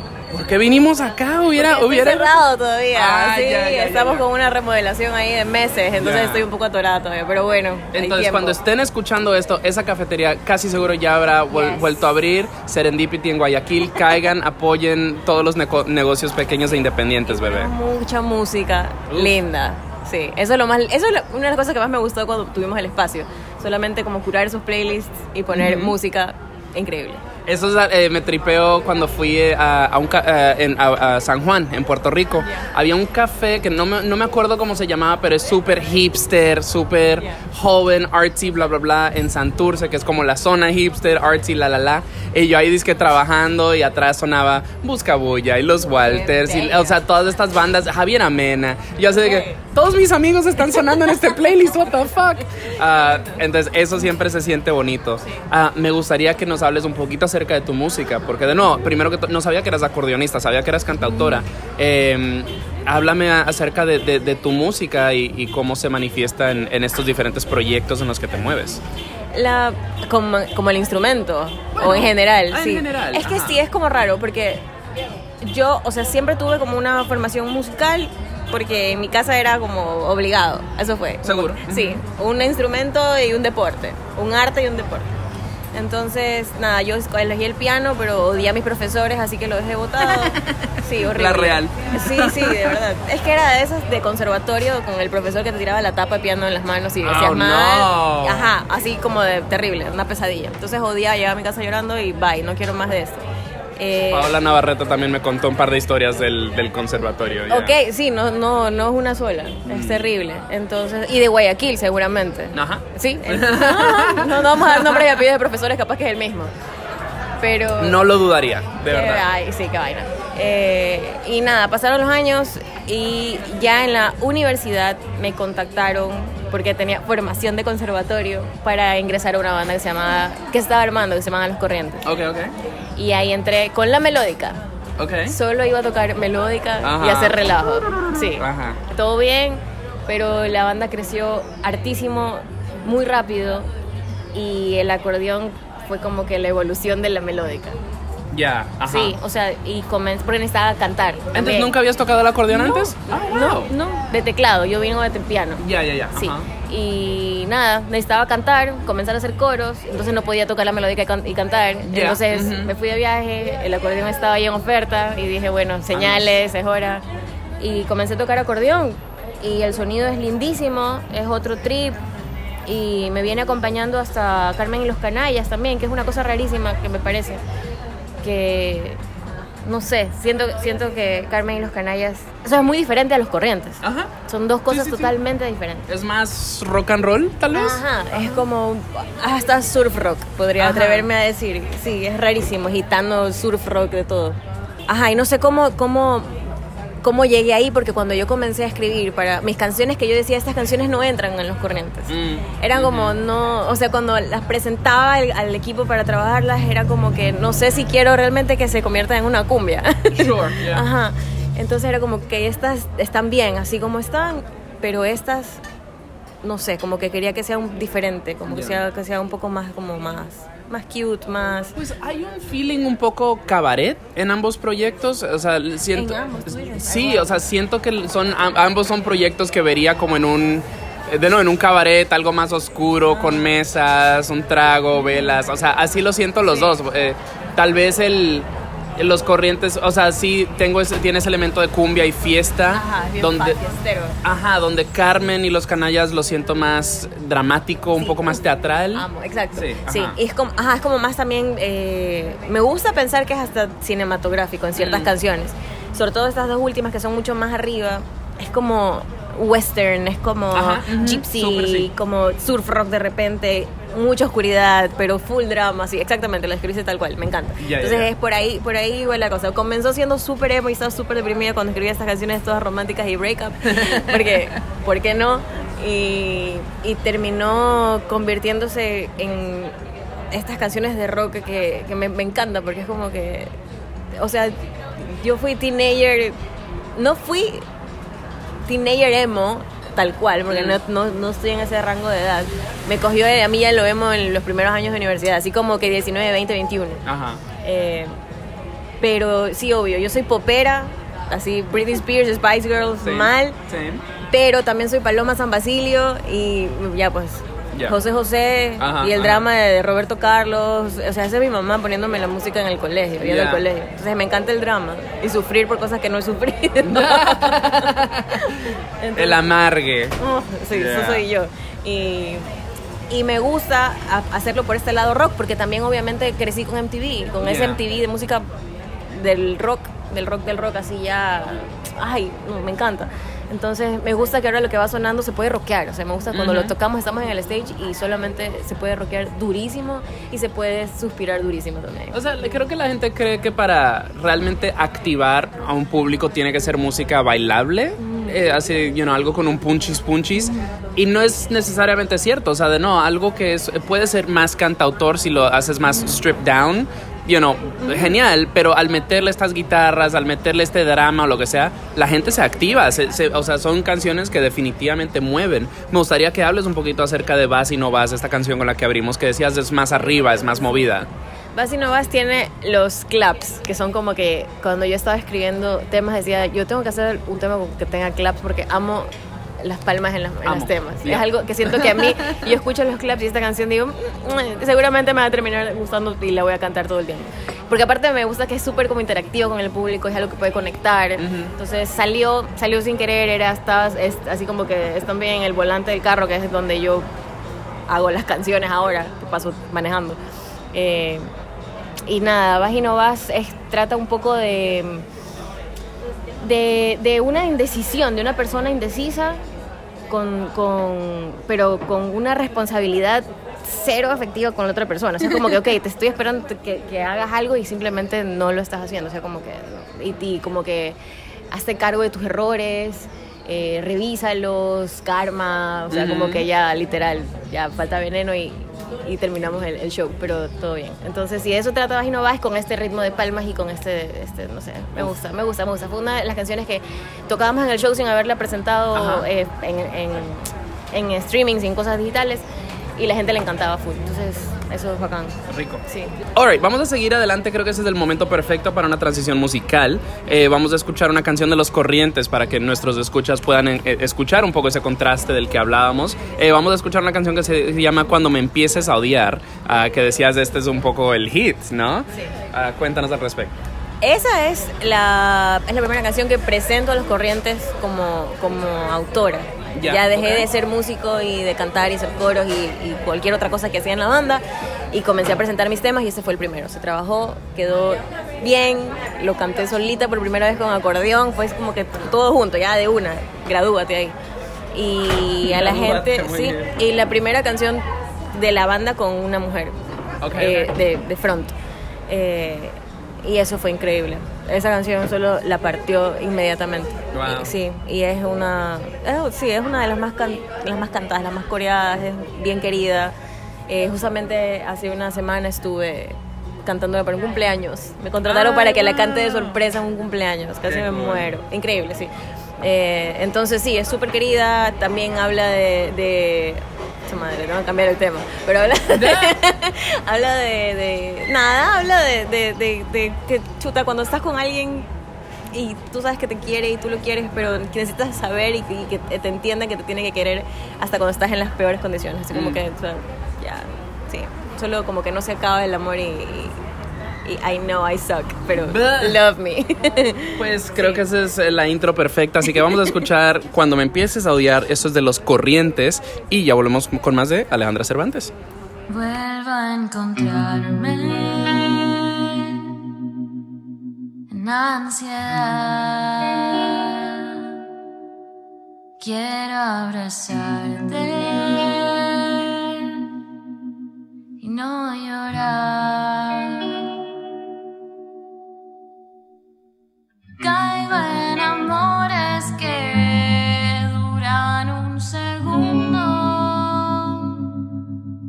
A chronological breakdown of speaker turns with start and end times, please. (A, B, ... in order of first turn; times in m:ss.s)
0:00.3-0:04.2 A
0:01.5-0:08.6 B
0:06.0-0:06.5 A
0:07.9-0:17.7 A
0:11.5-0:12.0 B
0:17.2-0:27.2 B
0:19.1-0:19.4 A
0:25.5-0:25.9 A
0:27.4-1:08.8 A
0:46.0-0:47.0 B
0:49.2-0:49.6 B
1:09.3-1:14.6 B
1:11.7-1:13.6 A
1:15.4-1:25.1 B
1:21.2-1:22.0 A
1:25.7-1:43.2 B
1:30.0-1:32.8 A
1:37.0-1:38.5 A
1:43.8-1:44.3 B
1:44.1-1:47.7 A
1:47.5-1:56.5 B
1:49.6-1:50.1 A
1:52.5-1:55.1 A
1:57.4-1:58.1 B
1:57.8-1:59.2 A
1:58.8-2:12.0 B
2:12.0-2:12.5 A
2:13.0-2:14.6 B
2:15.0-2:15.3 A
2:15.3-2:23.7 B
2:16.8-2:18.8 A
2:24.3-2:27.8 B
2:28.3-2:29.2 A
2:28.8-2:31.7 B
2:31.3-2:33.7 A
2:32.5-2:47.0 B
2:35.6-2:36.5 A
2:41.9-2:42.7 A
2:45.9-2:46.3 A
2:47.6-2:52.0 B
2:52.6-2:57.4 B
2:58.2-2:59.0 B
2:59.6-3:05.8 B
3:03.8-3:04.1 A
3:04.7-3:05.1 A
3:05.9-3:07.8 A
3:07.5-3:16.4 B
3:10.6-3:11.1 A
3:17.0-3:35.6 B
3:22.1-3:23.2 A
3:30.1-3:30.8 A
3:36.4-3:41.7 B
3:38.5-3:38.8 A
3:41.7-4:03.6 A
3:45.9-3:47.4 B
3:53.1-3:53.5 B
4:02.7-4:04.2 B
4:04.2-4:10.2 A
4:08.0-4:08.4 B
4:08.9-4:39.8 B
4:14.8-4:15.1 A
4:20.5-4:21.9 A
4:27.6-4:28.1 A
4:33.6-4:34.5 A
4:40.3-4:43.5 B
4:44.1-4:46.4 B
4:47.0-4:47.6 B
4:48.6-4:57.0 B
4:50.5-4:50.8 A
4:57.0-4:57.4 A
4:57.6-4:58.1 B
4:59.0-5:03.6 B
5:03.0-5:04.0 A
5:04.3-5:19.4 B
5:08.8-5:09.5 A
5:13.2-5:13.6 A
5:16.8-5:18.6 A
5:19.1-5:20.2 A
5:20.2-5:22.5 B
5:20.7-5:21.2 A
5:23.1-5:28.5 B
5:27.4-5:27.8 A
5:29.1-5:42.2 B
5:36.3-5:36.7 A
5:42.1-6:11.1 A
5:48.0-5:48.4 B
5:57.8-5:58.2 B
6:11.5-6:37.1 B
6:20.4-6:22.6 A
6:31.2-6:31.5 A
6:37.9-6:40.2 B
6:40.7-6:41.3 B
6:42.0-6:45.0 B
6:46.4-6:49.4 B
6:50.1-7:01.0 B
7:01.5-7:22.4 B
7:05.9-7:06.4 A
7:18.9-7:19.3 A
7:23.0-7:26.1 B
7:25.5-7:43.6 A
7:44.0-8:04.2 B
7:49.7-7:50.5 A
8:04.7-8:09.8 B
8:05.4-8:06.8 A
8:10.2-8:10.7 A
8:10.3-8:11.5 B
8:12.1-8:23.1 B
8:17.1-8:17.5 A
8:23.7-8:44.9 B
8:28.2-8:29.6 A
8:30.6-8:31.3 A
8:38.9-8:39.4 A
8:45.5-8:56.6 B
8:52.3-8:52.6 A
8:57.2-9:01.0 B
8:58.5-8:59.2 A
9:00.4-9:08.3 A
9:08.9-9:12.7 C
9:14.3-9:17.4 C
9:19.0-9:23.0 C
9:24.4-9:26.9 C
9:30.4-9:37.4 C